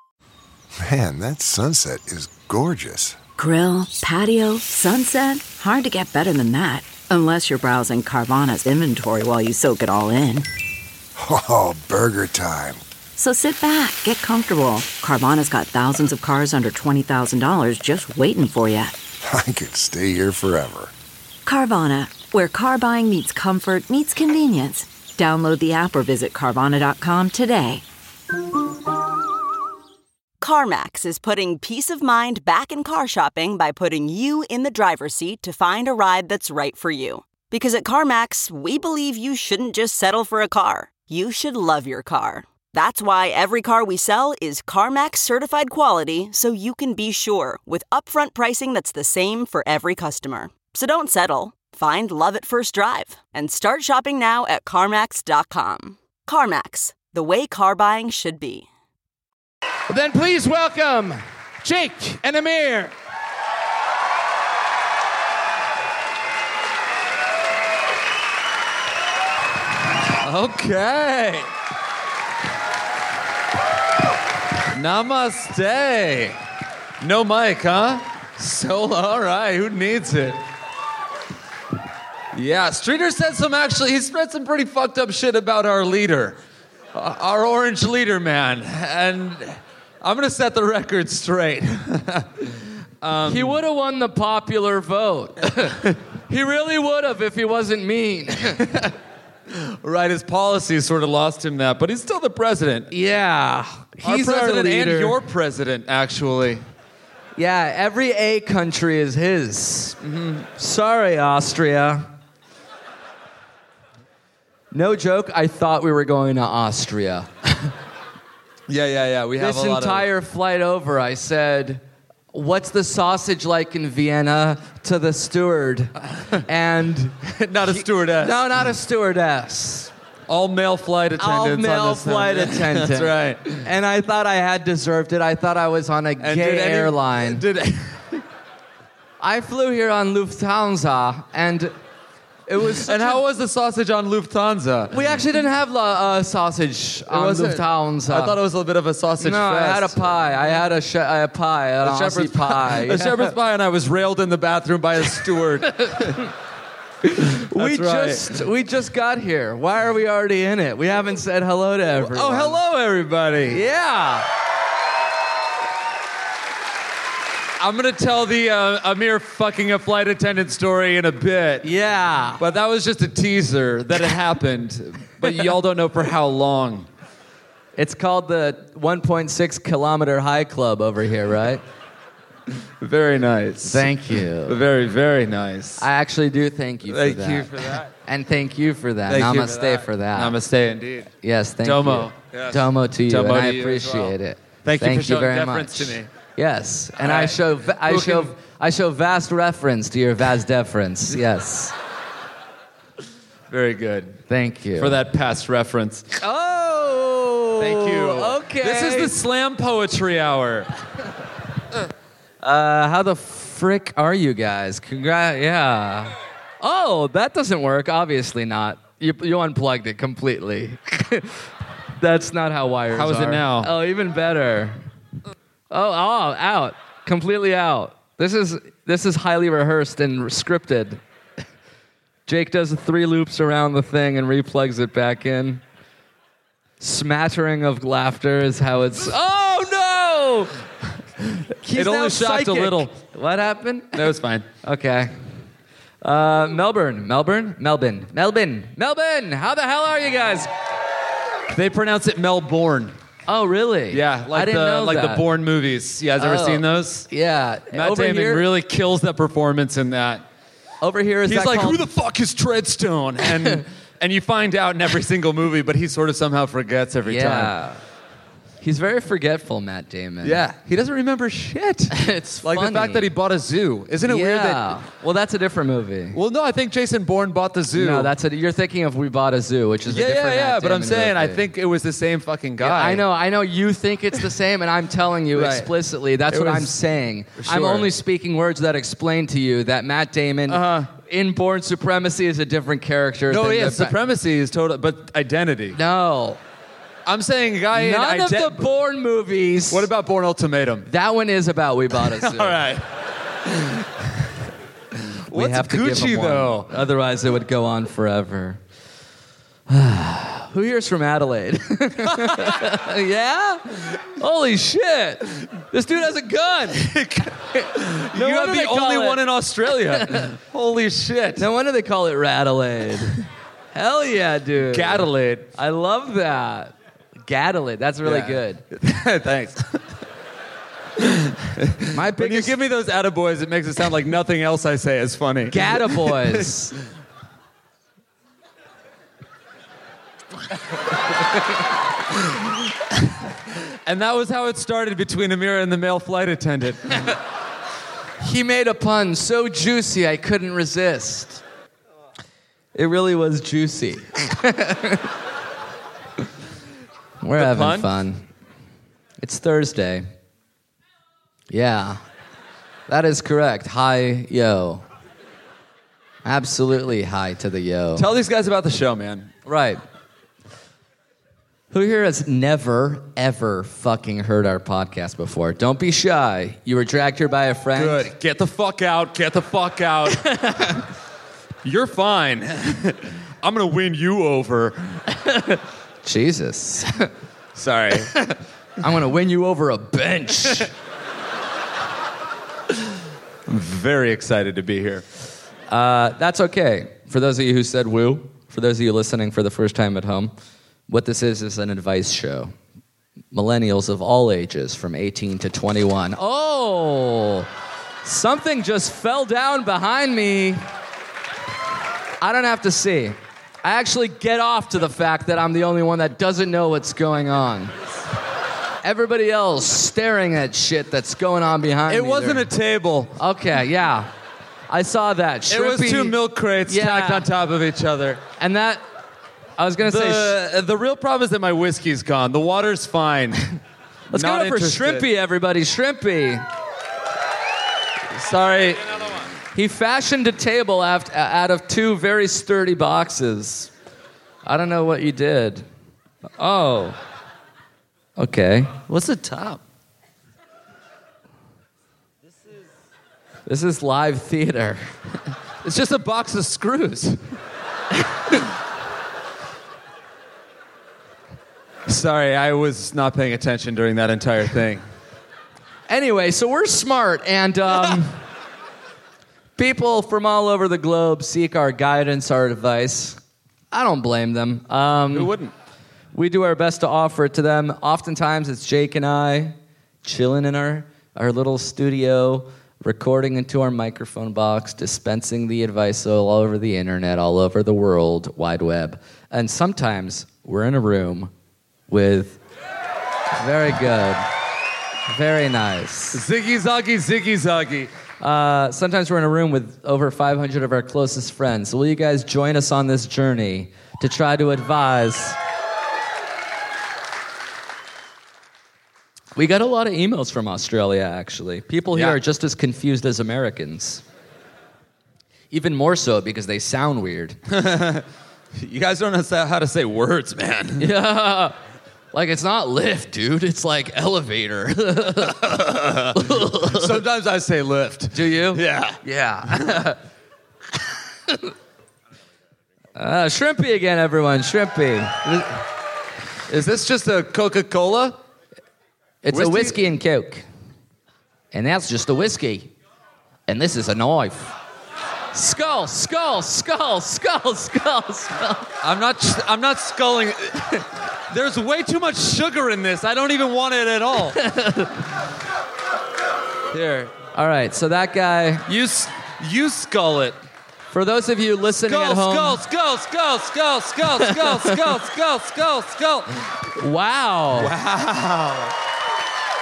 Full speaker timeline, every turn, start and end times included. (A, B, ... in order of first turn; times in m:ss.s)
0:00.8-0:03.2 A
0:03.4-0:10.5 B
0:11.2-0:12.8 A
0:13.2-0:18.9 B
0:19.2-0:20.9 A
0:21.4-0:27.8 B
0:30.4-0:58.7 C
0:59.9-1:02.9 D
1:10.1-1:11.5 E
1:14.7-1:16.4 E
1:17.0-1:20.4 E
1:22.3-1:26.4 E
1:26.9-1:33.6 E
1:33.2-1:38.9 D
1:39.5-1:42.9 E
1:42.9-1:45.2 D
1:44.0-1:46.6 E
1:47.4-1:50.0 D
1:50.0-1:50.4 E
1:50.5-1:52.1 D
1:54.7-1:57.7 D
1:58.7-2:00.1 E
1:59.4-2:01.8 D
2:02.3-2:09.9 D
2:07.4-2:08.4 E
2:10.3-2:13.6 E
2:11.2-2:17.4 D
2:16.2-2:18.2 E
2:19.2-2:21.7 D
2:22.5-2:23.2 D
2:22.6-2:25.2 E
2:24.9-2:28.4 D
2:27.1-2:30.2 E
2:29.2-2:33.3 D
2:31.8-2:36.3 E
2:35.8-2:36.2 D
2:37.0-2:42.6 D
2:37.5-2:38.4 E
2:42.0-2:43.6 E
2:43.5-2:44.3 D
2:47.6-2:51.7 E
2:51.6-2:52.4 D
2:52.4-2:56.9 E
2:57.8-3:01.6 D
3:02.8-3:05.9 E
3:03.6-3:04.6 D
3:05.8-3:07.5 D
3:06.8-3:07.9 E
3:08.0-3:10.3 D
3:09.1-3:16.1 E
3:11.2-3:21.7 D
3:17.0-3:18.3 E
3:23.5-3:24.2 E
3:24.3-3:25.0 D
3:24.8-3:26.2 E
3:26.2-3:29.2 D
3:27.6-3:30.7 E
3:32.4-3:41.4 D
3:42.0-3:44.8 D
3:42.9-3:43.7 E
3:45.7-3:51.0 D
3:52.3-3:55.6 D
3:56.8-4:00.5 D
4:01.6-4:04.1 D
4:01.7-4:02.9 E
4:03.9-4:04.5 E
4:04.6-4:05.1 D
4:06.0-4:10.5 D
4:11.5-4:13.0 E
4:13.3-4:15.3 D
4:13.9-4:17.1 E
4:16.2-4:18.5 D
4:17.7-4:20.2 E
4:20.8-4:21.8 D
4:21.2-4:27.5 E
4:27.0-4:27.8 D
4:28.6-4:30.4 D
4:30.2-4:34.8 E
4:31.9-4:33.1 D
4:34.0-4:36.2 D
4:36.1-4:38.1 E
4:37.7-4:41.4 D
4:39.9-4:43.0 E
4:42.6-4:54.0 D
4:45.3-4:45.7 E
4:46.3-4:46.8 E
4:47.4-4:47.9 E
4:50.5-4:50.9 E
4:53.3-4:55.8 E
4:55.7-4:56.4 D
4:57.0-4:58.7 E
4:57.7-4:59.9 D
4:59.7-5:00.9 E
5:00.8-5:02.6 D
5:01.9-5:02.9 E
5:03.4-5:04.1 E
5:05.0-5:06.7 E
5:05.3-5:08.6 D
5:09.7-5:16.9 D
5:12.1-5:12.5 E
5:16.7-5:21.4 E
5:18.1-5:20.2 D
5:21.4-5:26.7 D
5:24.6-5:25.5 E
5:27.3-5:28.6 D
5:28.0-5:29.8 E
5:31.0-5:36.8 E
5:31.9-5:32.6 D
5:35.5-5:36.7 D
5:43.8-5:47.1 E
5:48.2-5:51.4 D
5:52.7-5:55.1 D
5:57.2-5:58.3 D
5:57.3-5:57.9 E
5:59.2-6:00.1 D
6:01.5-6:02.0 D
6:02.9-6:04.8 D
6:06.2-6:08.1 D
6:07.9-6:09.3 E
6:09.4-6:09.8 D
6:11.7-6:18.1 D
6:17.7-6:20.8 E
6:20.3-6:20.8 D
6:21.6-6:25.0 E
6:26.0-6:27.1 D
6:27.5-6:28.1 E
6:28.1-6:30.7 D
6:33.4-6:35.0 E
6:35.7-6:40.3 D
6:40.9-6:42.5 D
6:43.3-6:47.5 D
6:48.0-6:50.6 D
6:52.2-6:57.8 D
6:58.8-7:02.5 D
7:01.9-7:03.2 E
7:03.2-7:04.1 D
7:04.7-7:07.3 D
7:05.5-7:08.2 E
7:08.4-7:08.8 D
7:09.6-7:10.4 D
7:09.8-7:13.4 E
7:14.1-7:15.1 E
7:14.1-7:16.4 D
7:18.1-7:19.3 E
7:19.5-7:23.7 D
7:24.4-7:25.6 D
7:26.4-7:27.0 D
7:28.2-7:28.7 D
7:28.9-7:29.6 E
7:33.4-7:34.8 D
7:35.6-7:37.2 E
7:41.9-7:44.8 E
7:45.9-7:48.2 D
7:49.6-7:53.2 D
7:53.7-7:55.3 D
7:55.1-7:55.5 E
7:56.1-8:11.3 D
8:11.9-8:12.4 D
8:13.4-8:14.3 D
8:15.1-8:16.2 D
8:16.1-8:17.9 E
8:18.2-8:25.4 D
8:29.3-8:34.0 D
8:31.9-8:32.2 E
8:35.5-8:37.4 D
8:37.5-8:40.9 E
8:40.8-8:41.6 D
8:42.1-8:45.5 D
8:45.2-8:49.8 E
8:46.1-8:46.9 D
8:48.1-8:50.0 D
8:52.9-8:55.4 D
8:56.5-8:58.2 E
8:59.2-9:00.4 D
8:59.3-8:59.8 E
9:01.5-9:02.7 D
9:03.5-9:04.5 D
9:05.3-9:08.7 D
9:08.8-9:14.4 E
9:14.4-9:15.0 D
9:16.7-9:17.1 E
9:17.3-9:18.6 D
9:18.7-9:20.4 E
9:20.9-9:22.6 D
9:21.8-9:26.3 E
9:24.2-9:24.8 D
9:26.7-9:27.7 D
9:27.5-9:28.7 E